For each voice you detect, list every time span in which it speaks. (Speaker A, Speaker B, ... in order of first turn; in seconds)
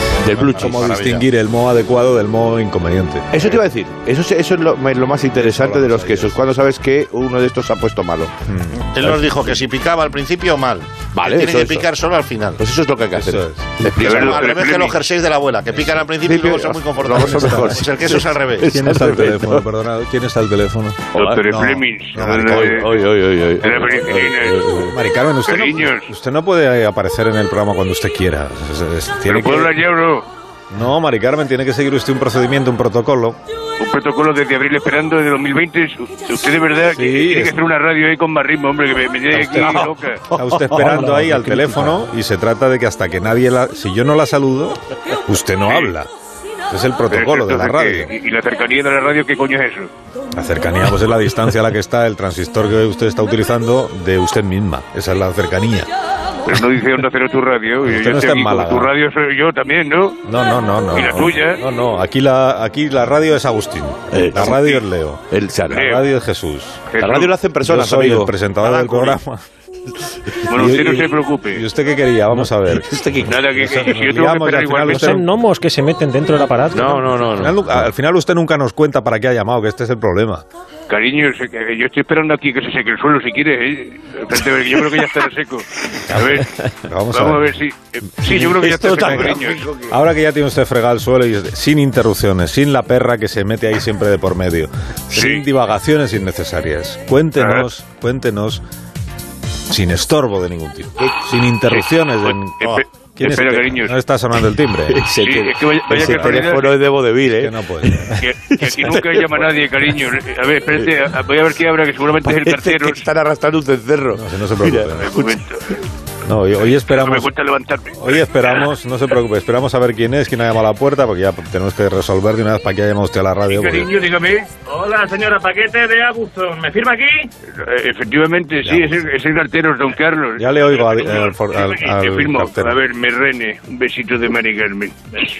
Speaker A: 0.2-0.9, 3.3-8.3, 11.1-11.9, 12.6-14.6, 16.2-19.6, 21.1-21.4, 22.4-24.9, 64.1-64.6, 65.3-65.9, 67.0-68.3, 72.7-73.3, 76.7-77.6, 88.8-89.9, 104.9-109.6, 112.2-115.3
Speaker B: 0.3-1.2, 8.8-12.6, 14.0-18.7, 68.6-69.2
Speaker C: 0.3-3.3, 5.3-6.4, 8.5-9.4, 13.2-13.9, 17.0-17.9, 18.6-22.9, 24.9-29.8, 30.7-33.4, 36.9-37.5, 39.3-46.1, 46.7-48.1, 50.3-55.9, 57.8-58.9, 60.2-66.8, 67.7-69.4, 70.5-75.2, 77.3-80.4, 86.8-87.5, 88.2-98.6, 99.7-105.0, 105.9-106.6, 107.3-108.2, 114.1-115.2, 116.2-117.3, 118.0-123.9, 128.6-128.9, 130.4-132.8
Speaker D: 14.1-14.9, 21.1-23.0, 23.6-24.8, 25.4-26.1, 29.3-30.2, 33.8-40.2, 47.1-49.9, 56.5-60.2, 60.9-61.6, 64.4-64.8, 65.7-66.0, 66.9-67.3, 70.4-71.6, 73.2-75.1, 80.9-89.6, 95.2-95.4, 97.4-97.7, 102.2-103.9, 105.2-106.8, 108.2-113.0, 115.0-115.6, 116.9-118.6, 123.5-124.3, 127.5-134.9
Speaker E: 40.5-42.0, 74.9-77.2
Speaker F: 123.8-127.3